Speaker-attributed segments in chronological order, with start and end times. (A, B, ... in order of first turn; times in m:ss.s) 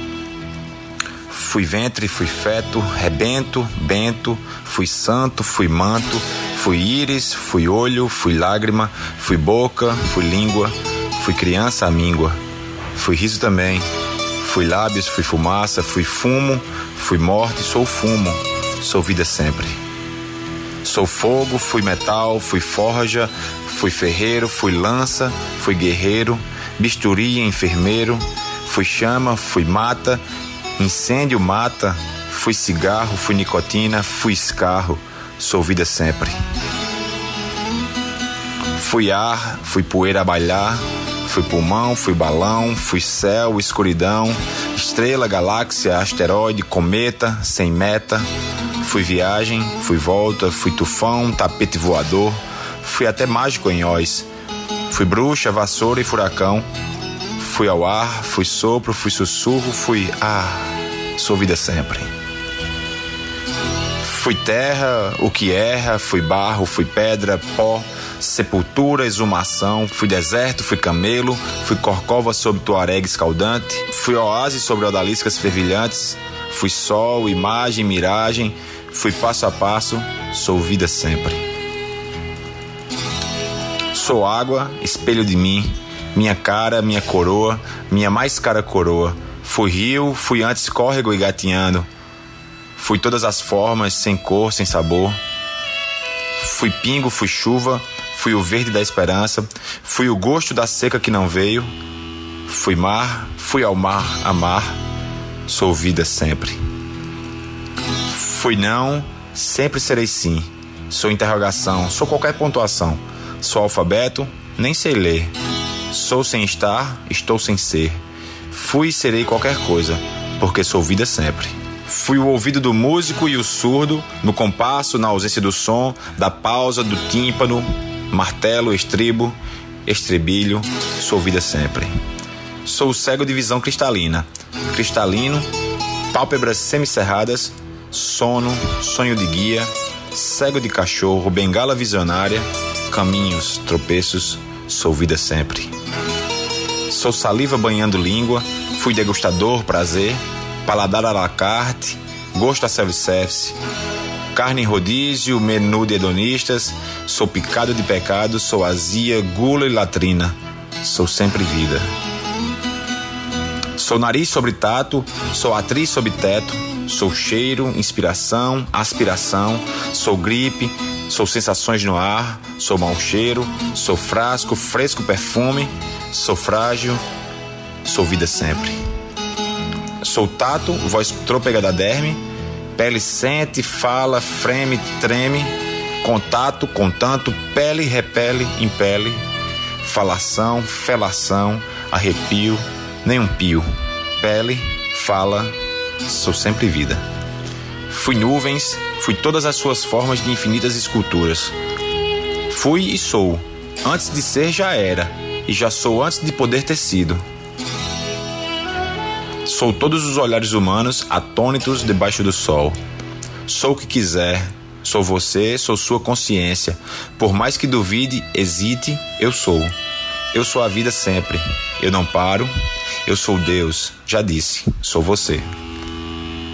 0:01.3-0:12.4 A
0:12.9-0:13.8 A
0:14.4-0:19.7 A
0:20.8-0:30.2 A
0:30.8-0:36.3 A
0:38.8-0:48.2 A
0:48.8-0:54.3 A
0:54.9-0:56.6 A
0:57.4-1:02.1 A
1:04.0-1:21.4 A
1:23.9-1:31.9 A
1:32.8-1:35.2 A
1:36.4-1:41.7 A
1:42.5-1:44.8 A
1:45.5-1:46.6 A
1:48.1-1:55.3 A
1:55.9-1:58.0 A
1:58.5-2:09.4 A
2:09.9-2:11.9 A
2:12.6-2:15.5 A
2:16.1-2:25.7 A
2:26.9-2:33.6 A
2:34.3-2:41.8 A
2:43.8-2:57.0 A
2:57.8-2:58.8 A
3:00.0-3:02.2 A
3:02.8-3:09.2 A
3:09.8-3:13.6 A
3:14.2-3:17.0 A
3:17.9-3:21.5 A
3:22.5-3:27.2 A
3:29.5-3:32.8 A
3:33.5-3:39.8 A
3:40.3-3:42.5 A
3:43.1-3:45.4 A